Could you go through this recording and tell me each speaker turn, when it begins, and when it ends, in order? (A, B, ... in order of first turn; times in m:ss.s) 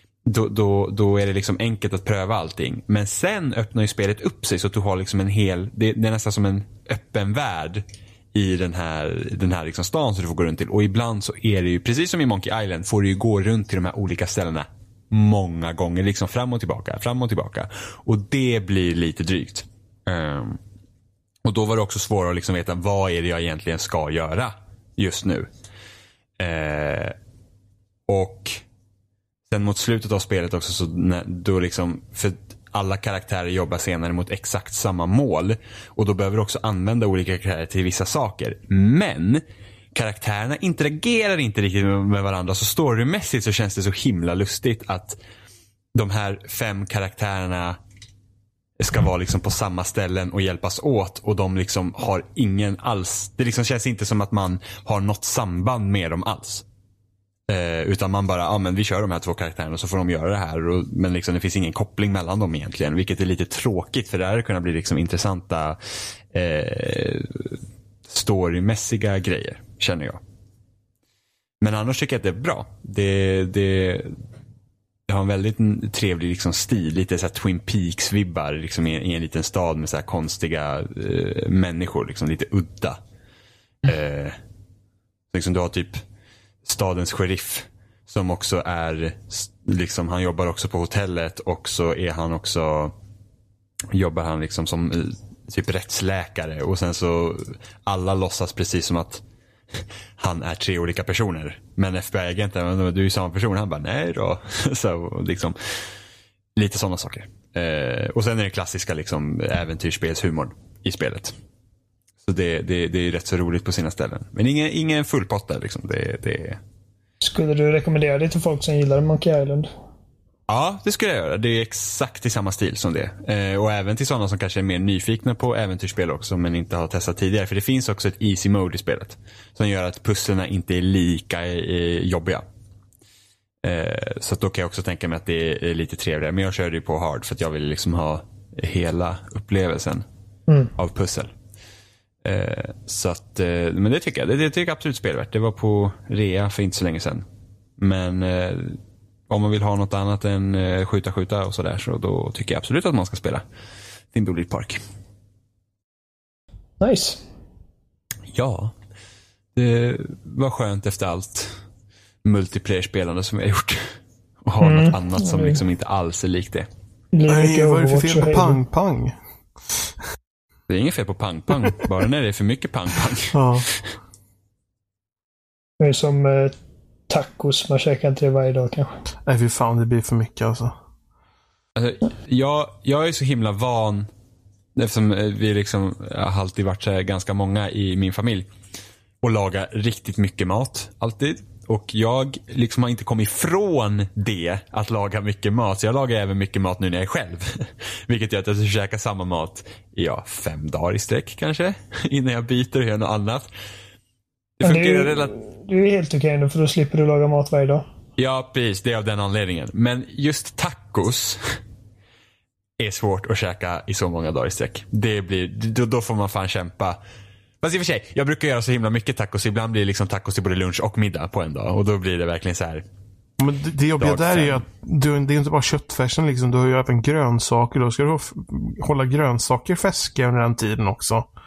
0:00.2-0:20.6 A
0:21.4-0:25.5 A
0:26.4-0:27.1 A
0:28.1-0:28.6 A
0:29.5-0:39.4 A
0:39.9-0:45.2 A
0:45.9-0:47.8 A
0:48.8-0:56.6 A
0:57.5-1:05.8 A
1:06.3-1:10.2 A
1:11.6-1:14.2 A
1:15.1-1:23.0 A
1:23.8-1:24.3 A
1:25.3-1:26.0 A
1:26.6-1:32.9 A
1:33.9-1:39.2 A
1:40.2-1:45.9 A
1:46.6-1:51.3 A
1:52.2-1:56.6 A
1:57.2-1:59.7 B
2:00.5-2:12.4 A
2:13.6-2:20.0 A
2:20.8-2:21.3 A
2:22.2-2:27.2 A
2:27.8-2:28.8 A
2:29.3-2:33.4 A
2:34.1-2:34.8 A
2:36.8-2:37.2 B
2:38.3-2:38.7 A
2:39.6-2:41.6 A
2:42.2-2:43.9 A
2:44.4-2:46.7 A
2:44.6-2:45.6 B
2:47.1-2:48.6 B
2:47.3-2:49.1 C
2:50.7-2:53.9 A
2:53.3-2:53.6 C
2:55.8-2:56.5 B
2:57.1-2:58.9 B
2:59.2-3:00.7 C
3:01.8-3:04.1 A
3:04.8-3:08.5 A
3:09.2-3:23.5 A
3:24.6-3:25.3 A
3:24.6-3:27.8 B
3:28.2-3:31.6 A
3:32.8-3:37.0 A
3:37.6-3:42.8 A
3:43.4-3:51.3 C
3:44.0-3:44.6 A